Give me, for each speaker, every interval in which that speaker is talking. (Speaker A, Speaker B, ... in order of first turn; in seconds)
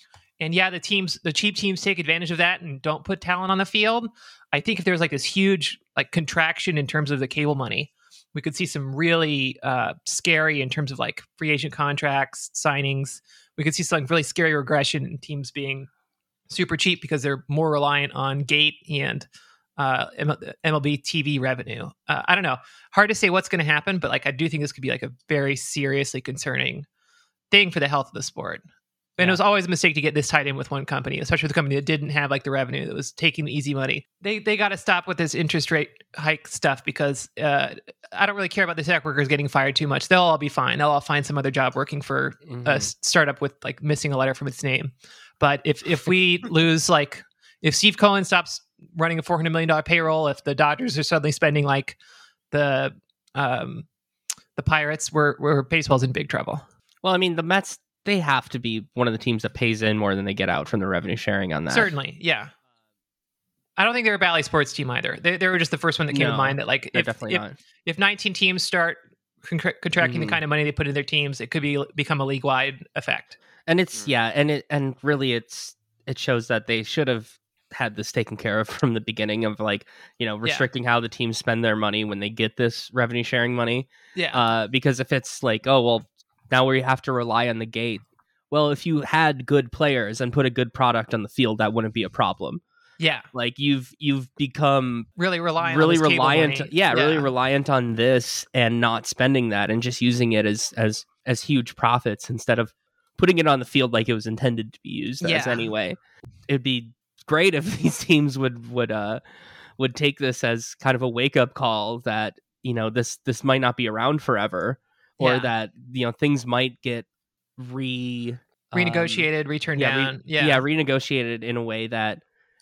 Speaker A: 0.4-15.9, 16.5-26.9, 27.5-28.6, 29.2-52.0, 52.5-53.9, 54.5-56.6, 61.7-62.5, 63.8-73.4, 84.1-84.4, 93.0-93.3, 95.2-97.3, 105.2-105.7, 115.2-115.5, 118.7-120.6
Speaker B: 42.5-42.9, 57.0-61.9, 66.1-67.6, 70.0-70.4, 73.7-92.6, 93.3-95.1, 95.6-109.2, 109.8-117.1, 117.6-122.2